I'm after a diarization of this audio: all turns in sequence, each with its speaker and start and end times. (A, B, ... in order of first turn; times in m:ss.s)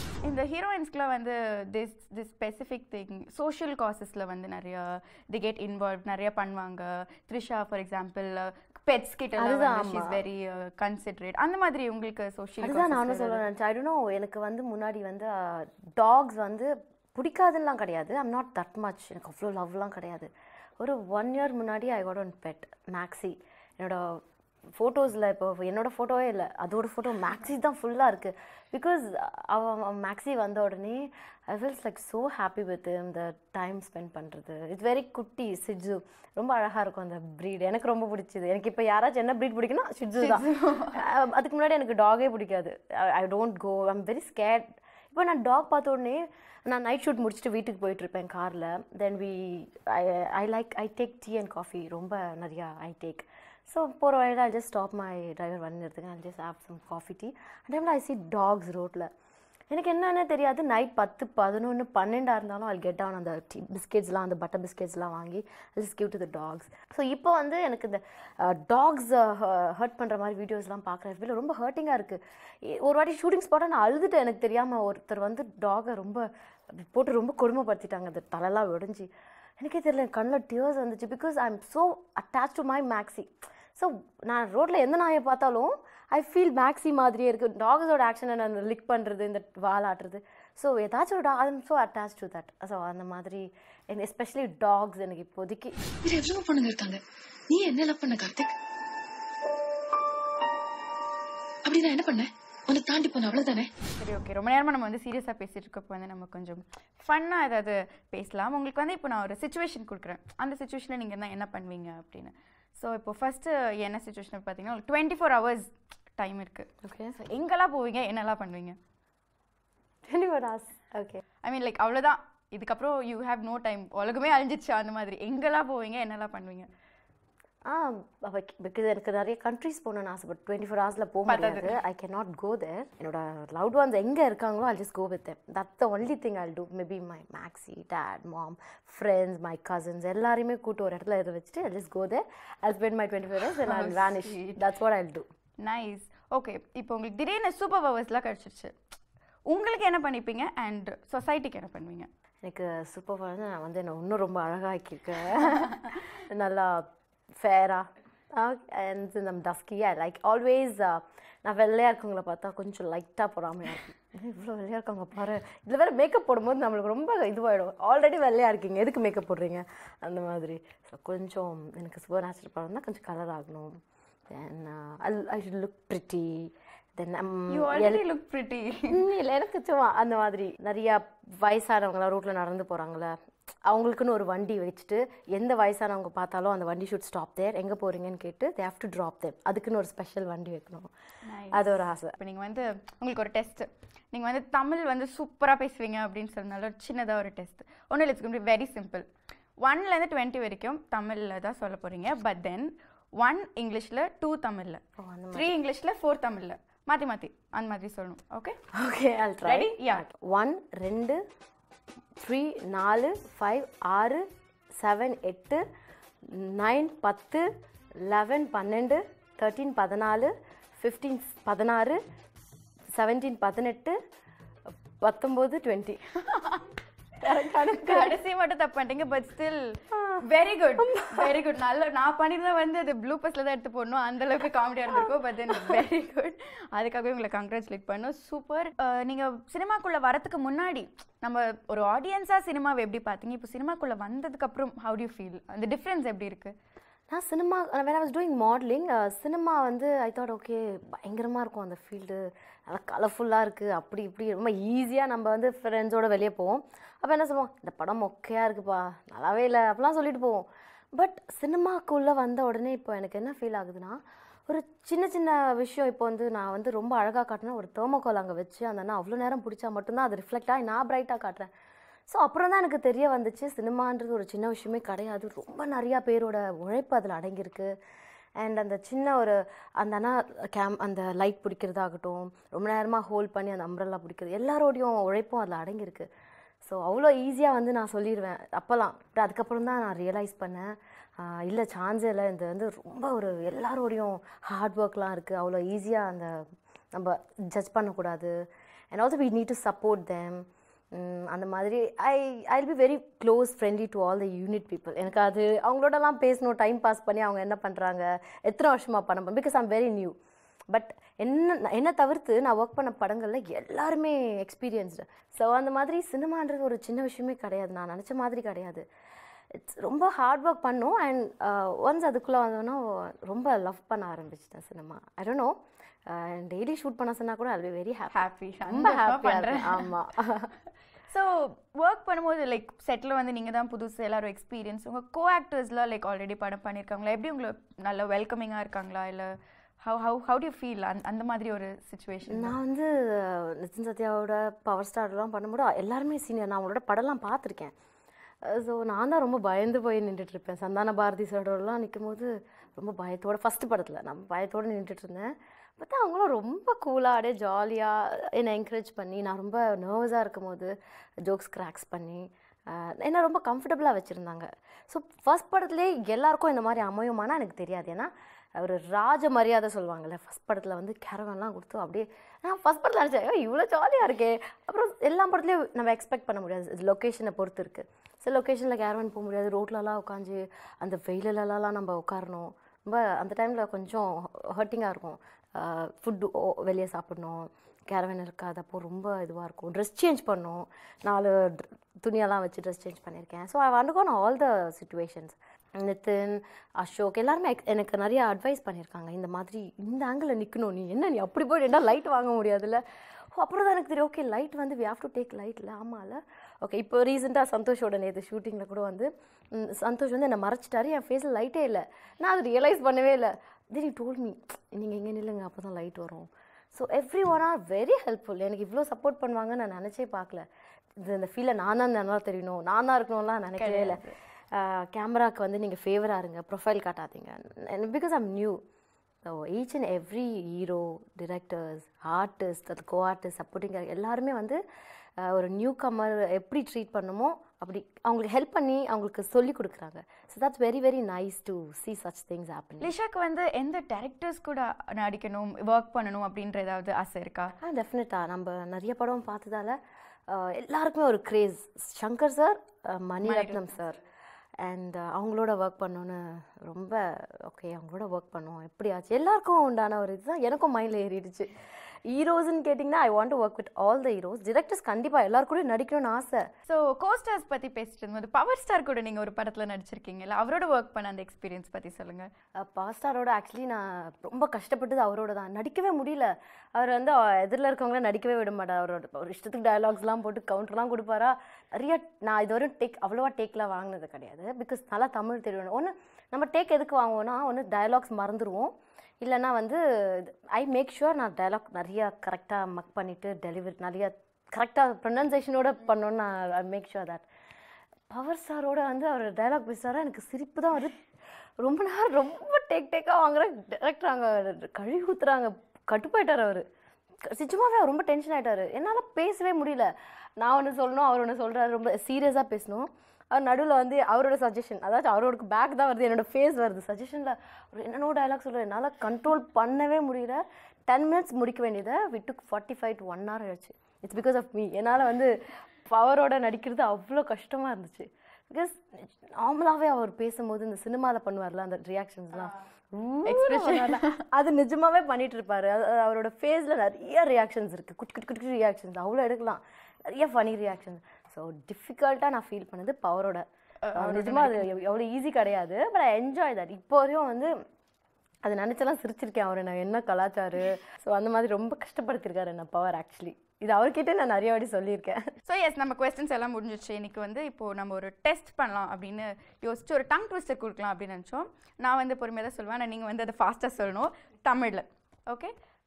0:00.2-0:13.4 A
0:09.4-0:10.2 B
0:12.6-0:24.2 B
0:24.8-0:59.1 B
0:40.2-0:41.0 A
0:59.7-1:35.7 B
1:36.0-1:38.5 C
1:41.6-1:43.7 C
1:44.0-1:58.8 A
1:56.8-1:57.1 B
2:00.1-2:01.2 B
2:01.4-2:06.7 A
2:07.6-2:25.3 B
2:11.3-2:11.7 A
2:23.6-2:24.6 A
2:25.6-2:28.7 A
2:29.5-2:32.1 A
2:32.4-2:53.7 B
2:35.6-2:35.9 A
2:54.3-2:58.0 B
2:57.5-2:59.0 A
2:58.9-3:10.9 B
3:11.2-3:19.0 A
3:11.5-3:12.2 B
3:19.6-3:24.8 A
3:25.0-3:25.5 B
3:25.3-3:28.6 A
3:28.7-3:31.2 B
3:29.4-3:30.0 A
3:32.2-3:34.3 B
3:34.8-3:35.6 B
3:36.2-3:37.5 B
3:38.0-3:42.0 B
3:42.9-3:44.0 B
3:45.0-3:46.0 B
3:46.3-3:46.6 A
3:47.2-3:48.2 B
3:47.6-4:06.5 A
3:49.9-3:50.2 B
3:50.8-3:51.3 B
3:54.9-3:55.7 B
4:07.1-4:31.5 B
4:32.1-4:37.7 B
4:38.4-4:46.1 B
4:46.6-4:56.4 B
4:56.9-4:58.3 B
4:58.9-5:10.2 B
5:10.7-5:18.8 B
5:19.5-5:25.6 B
5:26.1-5:30.5 B
5:28.1-5:29.9 A
5:31.1-5:42.6 A
5:42.3-5:47.7 B
5:48.4-6:42.8 B
6:43.3-7:00.4 B
7:01.0-7:08.6 B
7:03.6-7:04.1 A
7:09.2-7:14.6 B
7:15.2-7:22.9 B
7:22.8-7:27.5 A
7:27.6-7:34.0 B
7:33.2-7:33.6 A
7:34.6-7:46.5 B
7:46.6-7:52.3 A
7:52.6-8:17.2 B
8:18.1-8:21.0 B
8:21.6-8:26.6 B
8:27.2-9:07.5 B
8:53.2-8:54.2 A
9:03.8-9:04.7 A
9:08.4-9:15.3 B
9:15.4-9:25.5 A